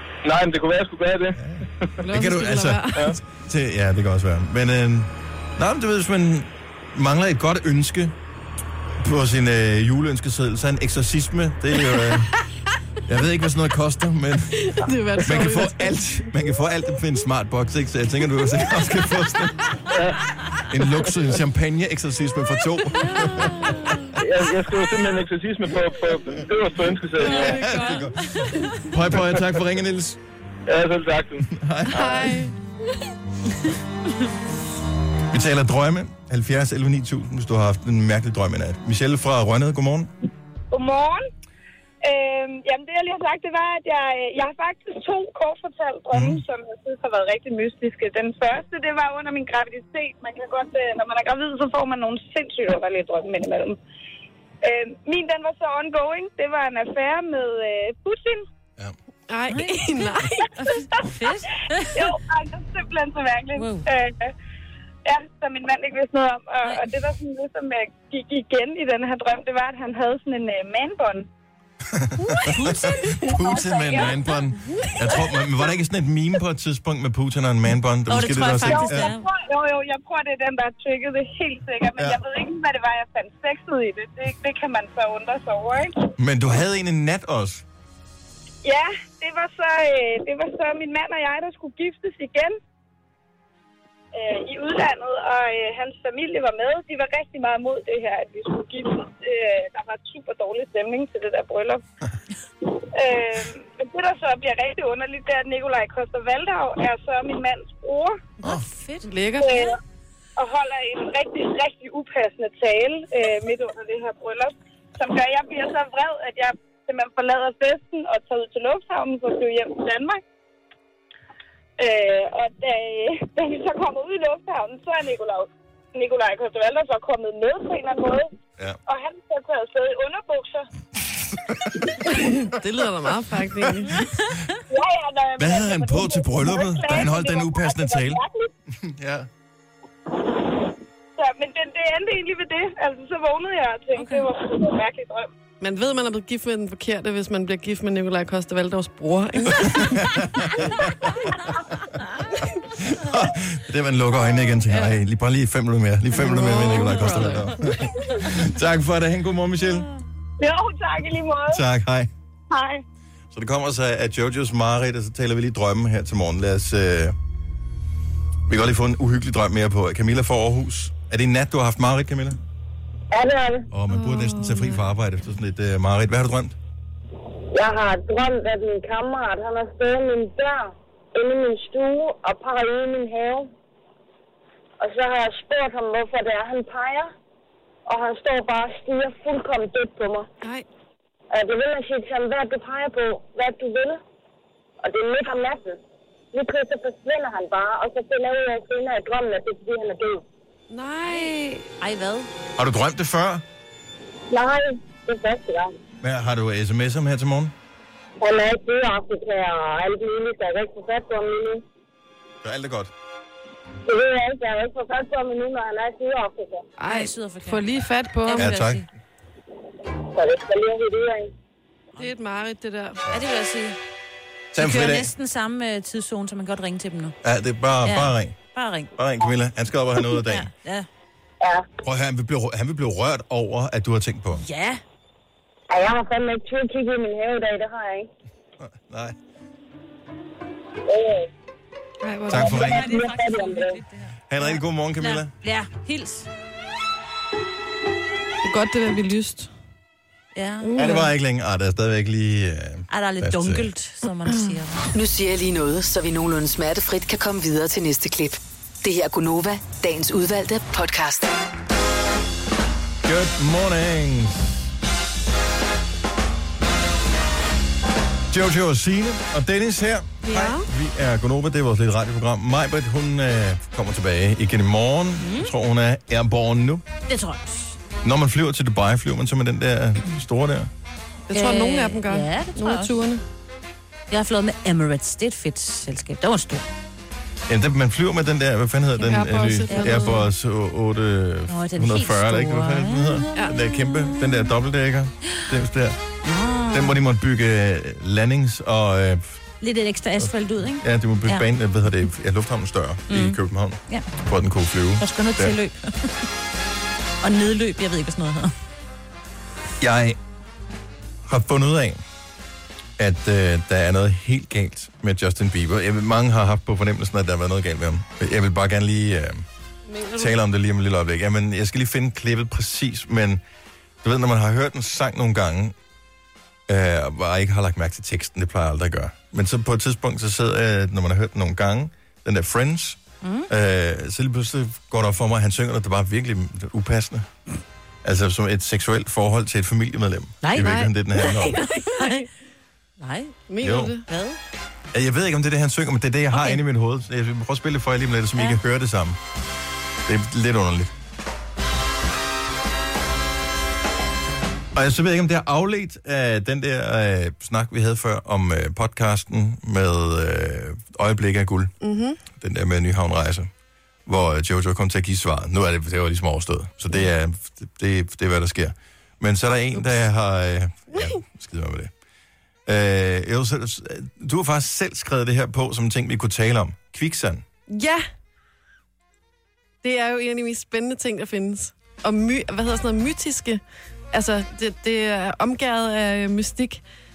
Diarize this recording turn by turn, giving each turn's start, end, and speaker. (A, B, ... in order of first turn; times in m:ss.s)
0:00.2-0:01.4 A
0:01.4-0:08.1 B
0:02.0-0:03.2 C
0:08.9-0:12.3 B
0:11.9-0:12.3 C
0:13.1-0:19.8 B
0:14.6-0:16.0 C
0:19.9-0:20.2 A
0:20.6-0:24.0 B
0:23.1-0:24.1 C
0:24.2-0:27.7 A
0:27.2-0:28.8 C
0:27.2-0:30.2 B
0:27.2-0:28.8 D
0:30.7-0:31.5 A
0:31.4-0:32.5 B
0:31.9-0:33.0 C
0:35.3-0:40.1 B
0:40.7-0:41.2 E
0:42.0-0:53.8 E
0:46.1-0:46.4 B
0:54.6-0:58.4 E
0:59.3-1:00.5 C
0:59.5-1:02.1 D
1:01.9-1:04.3 E
1:03.6-1:03.8 D
1:05.0-1:11.3 E
1:11.9-1:19.2 B
1:12.3-1:13.4 C
1:13.2-1:14.2 E
1:14.8-1:15.3 C
1:18.1-1:19.3 D
1:18.7-1:26.1 E
1:22.0-1:22.2 B
1:26.2-1:27.6 B
1:28.6-1:32.6 E
1:34.1-1:41.8 E
1:42.7-1:48.2 E
1:48.4-1:49.1 D
1:49.0-1:49.7 C
1:49.4-1:49.8 E
1:50.4-2:00.2 E
2:01.8-2:08.3 E
2:08.9-2:10.7 E
2:11.5-2:11.8 B
2:12.1-2:14.1 C
2:14.7-2:18.5 E
2:15.4-2:19.3 B
2:21.2-2:25.3 E
2:24.0-2:24.3 D
2:25.6-2:30.9 C
2:29.6-2:31.1 B
2:32.6-2:39.9 B
2:36.1-2:37.6 C
2:36.4-2:37.5 D
2:40.4-2:41.6 E
2:41.5-2:42.1 B
2:42.5-2:42.8 E
2:43.3-2:47.2 B
2:48.5-2:52.4 B
2:53.1-2:53.7 F
2:53.7-2:56.6 B
2:53.9-2:54.8 C
2:57.5-3:03.5 F
3:04.8-3:07.1 F
3:07.9-3:10.3 F
3:11.3-3:14.0 F
3:14.8-3:15.8 F
3:16.3-3:20.2 F
3:20.7-3:21.7 C
3:21.1-3:22.3 D
3:22.6-3:23.4 B
3:24.3-3:25.7 F
3:26.0-3:27.5 B
3:28.2-3:31.6 F
3:32.4-3:32.9 B
3:33.9-3:36.6 F
3:36.8-3:38.5 C
3:36.9-3:37.6 D
3:38.2-3:38.9 D
3:38.4-3:38.9 B
3:40.1-3:41.3 F
3:42.0-3:43.1 C
3:43.1-3:43.8 D
3:44.5-3:45.1 B
3:44.6-3:47.2 D
3:47.2-3:48.4 B
3:47.8-3:48.9 D
3:49.0-3:50.5 B
3:50.2-3:50.9 D
3:51.4-3:51.7 F
3:51.8-3:54.4 B
3:54.3-3:54.8 D
3:55.7-3:58.1 F
3:58.6-3:59.2 B
4:00.9-4:01.3 F
4:02.0-4:02.8 C
4:02.3-4:02.9 B
4:02.3-4:03.8 F
4:02.4-4:06.3 D
4:04.3-4:05.3 B
4:08.4-4:09.5 C
4:10.3-4:10.7 D
4:10.6-4:11.1 C
4:10.8-4:13.7 B
4:12.9-4:14.9 D
4:14.9-4:21.3 G
4:23.0-4:24.7 B
4:28.3-4:36.8 B
4:30.3-4:30.7 C
4:35.2-4:35.5 D
4:37.1-4:37.8 D
4:38.0-4:40.7 B
4:41.3-4:43.2 C
4:41.3-4:43.0 D
4:44.1-4:46.7 D
4:47.5-4:56.0 B
4:49.0-4:50.3 C
4:49.7-4:50.2 D
4:51.5-4:54.5 D
4:56.2-4:57.0 D
4:56.7-4:59.4 B
4:59.6-5:01.5 D
5:00.2-5:05.6 B
5:03.1-5:04.1 D
5:05.0-5:06.3 D
5:07.2-5:08.5 D
5:09.8-5:10.2 B
5:11.3-5:12.0 B
5:13.0-5:19.4 B
5:19.9-5:20.3 C
5:20.2-5:23.4 B
5:24.0-5:25.8 B
5:26.7-5:37.3 B
5:33.2-5:33.5 D
5:38.0-5:41.7 B
5:40.4-5:42.3 D
5:40.6-5:42.3 C
5:43.0-5:43.4 D
5:43.5-5:44.0 C
5:43.6-5:44.0 B
5:44.1-5:44.4 D
5:44.9-5:49.2 B
5:46.3-5:46.6 D
5:50.1-5:50.9 B
5:54.7-6:01.8 B
6:01.8-6:02.2 C
6:02.3-6:03.5 B
6:04.1-6:11.9 B
6:12.7-6:17.4 B
6:17.7-6:18.0 C
6:19.8-6:23.6 C
6:24.1-6:26.8 C